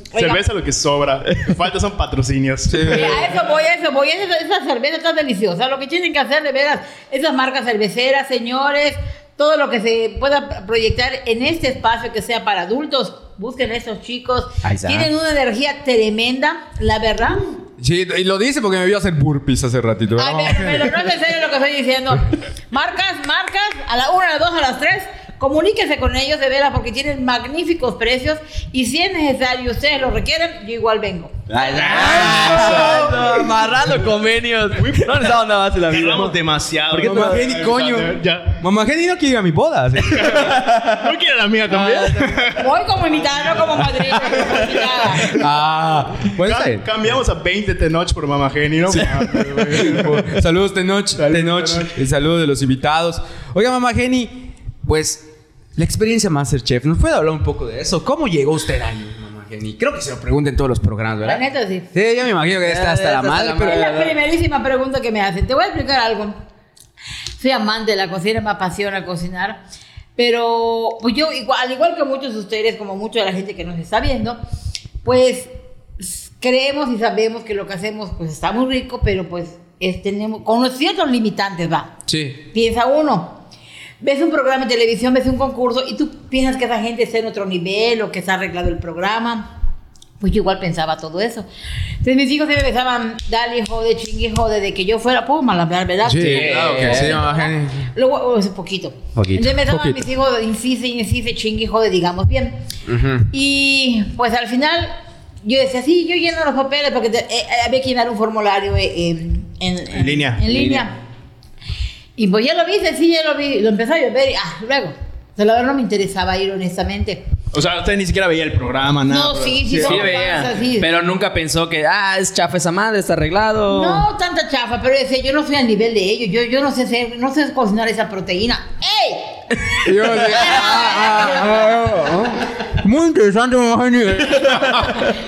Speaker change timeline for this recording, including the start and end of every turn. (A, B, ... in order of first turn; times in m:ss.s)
0:00.1-0:00.4 A
0:00.2-0:03.3 B
0:02.7-0:03.3 C
0:02.8-0:17.4 A
0:14.6-0:15.1 D
0:17.8-0:21.0 C
0:20.2-0:32.4 A
0:31.5-0:36.4 D
0:31.8-0:33.3 C
0:32.2-0:33.4 B
0:34.7-0:38.6 B
0:36.9-0:37.4 D
0:36.9-0:40.6 C
0:40.1-0:42.7 B
0:40.6-0:41.0 D
0:41.7-0:42.3 C
0:42.6-0:45.3 A
0:44.5-0:44.8 B
0:45.3-0:46.8 C
0:46.3-0:50.4 B
0:48.9-1:04.0 C
0:51.2-0:52.0 B
1:01.2-1:01.9 A
1:02.6-1:04.1 D
1:03.5-1:06.4 A
1:07.4-1:09.6 A
1:10.2-1:14.4 A
1:15.0-1:21.9 A
1:22.1-1:22.4 C
1:22.5-1:23.4 A
1:24.0-1:29.5 A
1:30.2-1:31.5 A
1:32.0-1:42.6 A
1:36.0-1:37.9 C
1:36.2-1:37.1 D
1:39.4-1:40.0 C
1:42.9-1:43.3 C
1:43.3-1:51.0 A
1:49.9-1:50.4 B
1:50.4-1:50.9 C
1:52.2-1:57.2 A
1:57.5-2:00.0 B
1:59.1-2:00.9 A
1:59.7-2:04.1 D
2:03.7-2:09.4 A
2:09.8-2:15.1 C
2:10.1-2:11.8 A